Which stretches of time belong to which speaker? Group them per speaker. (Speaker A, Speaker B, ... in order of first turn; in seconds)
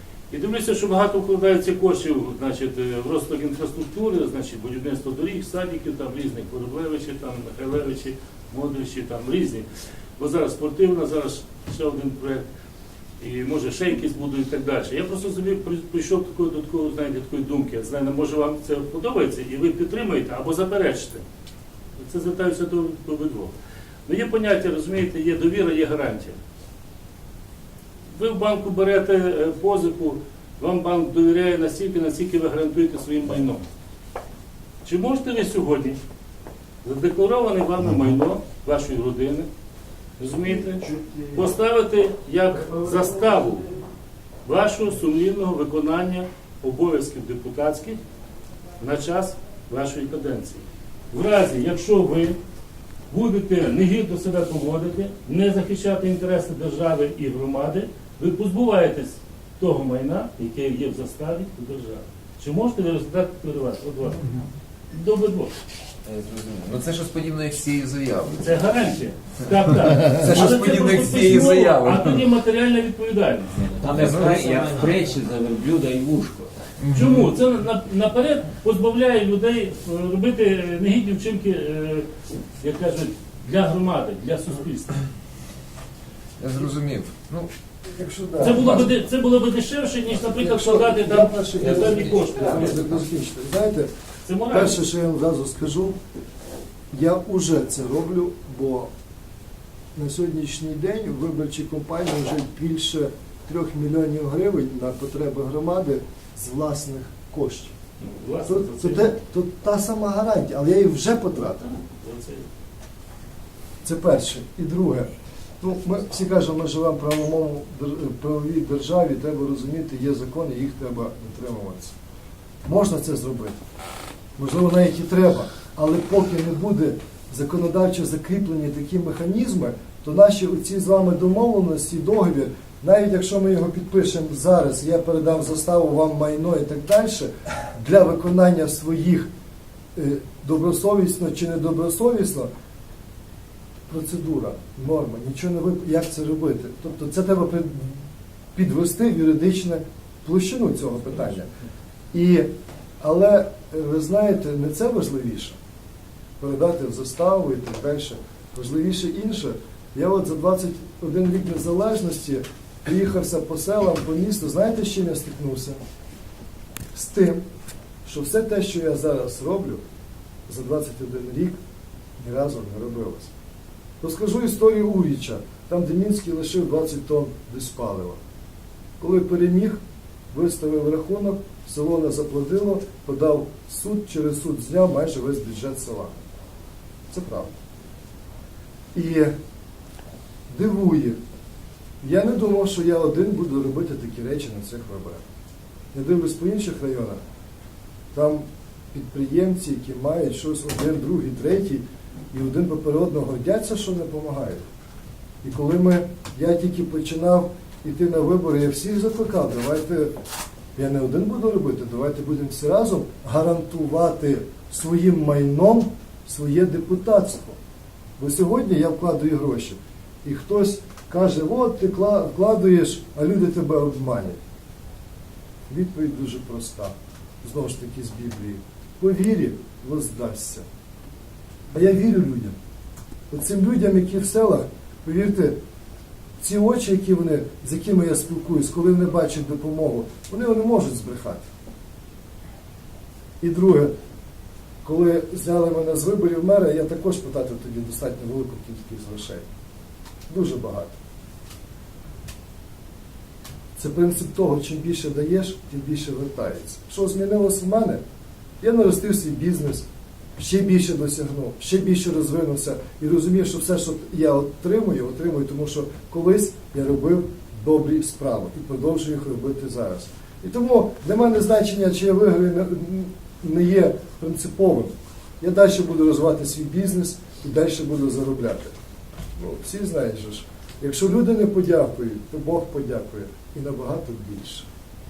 Speaker A: 0.3-9.6, 10.2-12.4, 13.2-21.2, 22.0-23.5, 24.1-26.4, 28.1-33.7, 34.8-36.0, 36.8-39.5, 40.2-43.6, 44.4-48.0, 48.8-52.4, 53.1-64.3, 64.9-65.5, 68.4-73.7, 76.9-82.0, 82.6-85.0, 88.4-92.7, 94.2-94.8, 108.0-109.1, 111.6-112.4
Speaker B: 66.0-68.6, 70.0-72.2, 73.8-74.9, 76.8-77.2, 86.4-87.5, 91.8-92.4
Speaker C: 73.6-76.5
Speaker D: 87.9-88.9, 90.2-93.9, 94.5-96.0, 96.9-98.9, 99.9-107.7, 108.5-111.6, 113.8-115.1, 115.6-121.9, 122.6-123.6, 124.4-139.3, 139.9-142.5, 143.9-148.0, 148.5-151.5, 152.1-152.5, 153.0-155.6, 156.4-165.8, 166.9-167.4, 168.0-169.8, 170.5-171.6, 172.2-173.3, 174.0-178.2, 179.0-179.8, 180.3-186.2, 187.1-187.5, 188.9-189.3, 190.5-191.2, 192.0-195.2, 195.9-197.2, 198.1-204.6, 205.4-210.1, 210.8-217.6, 218.2-224.4, 225.7-230.6, 231.7-232.5, 233.3-235.6, 236.4-241.4, 243.4-243.9, 244.8-249.4, 250.3-250.9, 253.8-258.0, 258.6-259.8, 260.4-278.7, 279.4-284.7